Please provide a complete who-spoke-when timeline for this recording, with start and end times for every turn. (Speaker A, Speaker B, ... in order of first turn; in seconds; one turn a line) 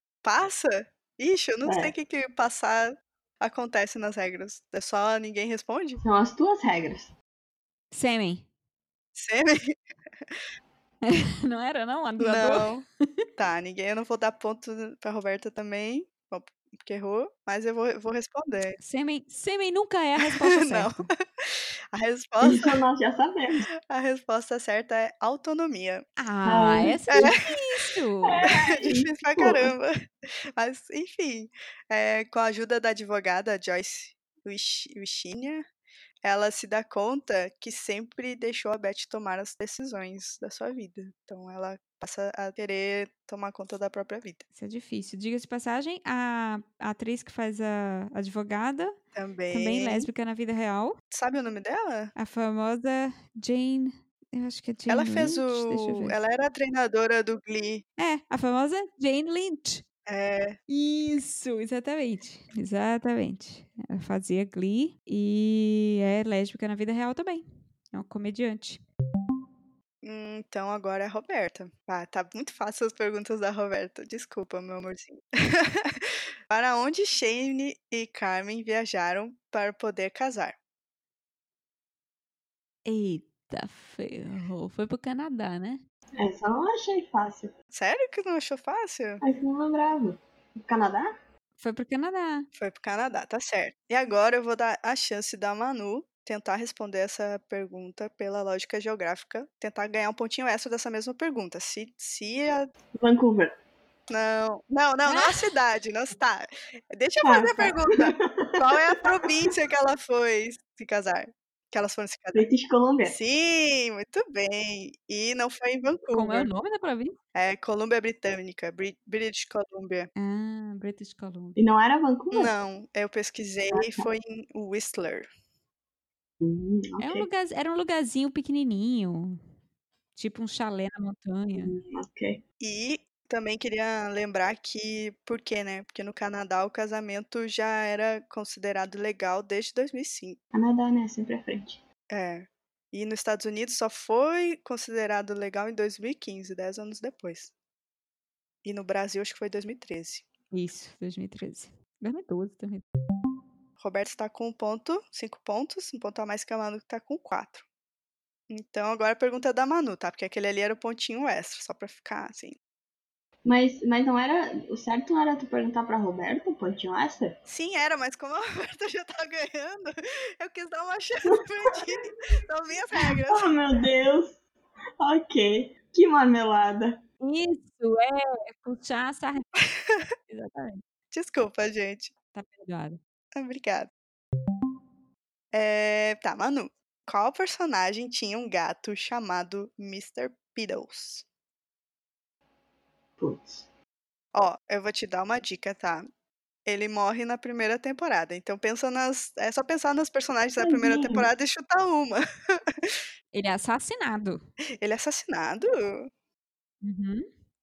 Speaker A: 0.2-6.0
Speaker B: 1.6-1.9
Speaker B: 6.0-7.1
Speaker C: 7.9-8.4
Speaker A: 9.1-9.8
Speaker C: 11.0-12.7
Speaker A: 12.2-12.8
Speaker A: 13.4-18.8
Speaker C: 18.8-21.1
Speaker A: 20.2-22.8
Speaker B: 22.4-23.7
Speaker A: 23.9-26.0
Speaker C: 26.2-28.4
Speaker B: 26.4-27.3
Speaker A: 27.1-27.8
Speaker B: 28.2-29.7
Speaker A: 28.6-35.6
Speaker A: 36.2-44.4
Speaker C: 44.5-49.0
Speaker A: 49.1-50.1
Speaker C: 49.5-51.0
Speaker A: 51.1-52.1
Speaker C: 52.1-56.1
Speaker A: 54.9-57.8
Speaker C: 58.0-59.8
Speaker A: 60.1-60.6
Speaker C: 60.7-68.8
Speaker A: 70.0-80.5
Speaker C: 82.8-85.8
Speaker B: 86.2-87.5
Speaker A: 87.7-89.2
Speaker B: 89.2-91.1
Speaker C: 91.6-92.5
Speaker A: 92.5-102.7
Speaker B: 103.0-103.5
Speaker A: 104.1-112.5
Speaker C: 105.0-105.4
Speaker B: 107.2-109.0
Speaker B: 112.3-113.2
Speaker A: 113.0-116.5
Speaker C: 116.1-117.2
Speaker A: 117.3-120.1
Speaker C: 120.2-121.6
Speaker B: 121.6-122.5
Speaker A: 122.3-125.3
Speaker B: 123.7-124.1
Speaker B: 126.4-127.3
Speaker C: 127.0-129.4
Speaker C: 130.1-131.8
Speaker B: 131.6-132.4
Speaker A: 132.6-140.4
Speaker B: 140.5-141.8
Speaker A: 142.1-147.5
Speaker A: 148.6-150.2
Speaker C: 150.5-152.8
Speaker A: 153.8-157.6
Speaker A: 158.5-162.6
Speaker B: 163.4-167.4
Speaker A: 167.5-173.5
Speaker B: 171.3-171.7
Speaker B: 173.0-174.4
Speaker B: 175.0-177.0
Speaker C: 177.2-179.4
Speaker A: 179.6-180.1
Speaker C: 180.3-180.8
Speaker A: 181.1-182.1
Speaker C: 182.3-183.0
Speaker A: 183.3-183.9
Speaker A: 185.5-191.2
Speaker B: 193.2-193.7
Speaker A: 194.3-196.1
Speaker A: 196.7-202.9
Speaker B: 200.6-201.3
Speaker C: 203.3-204.4
Speaker A: 204.8-206.1
Speaker C: 206.8-207.3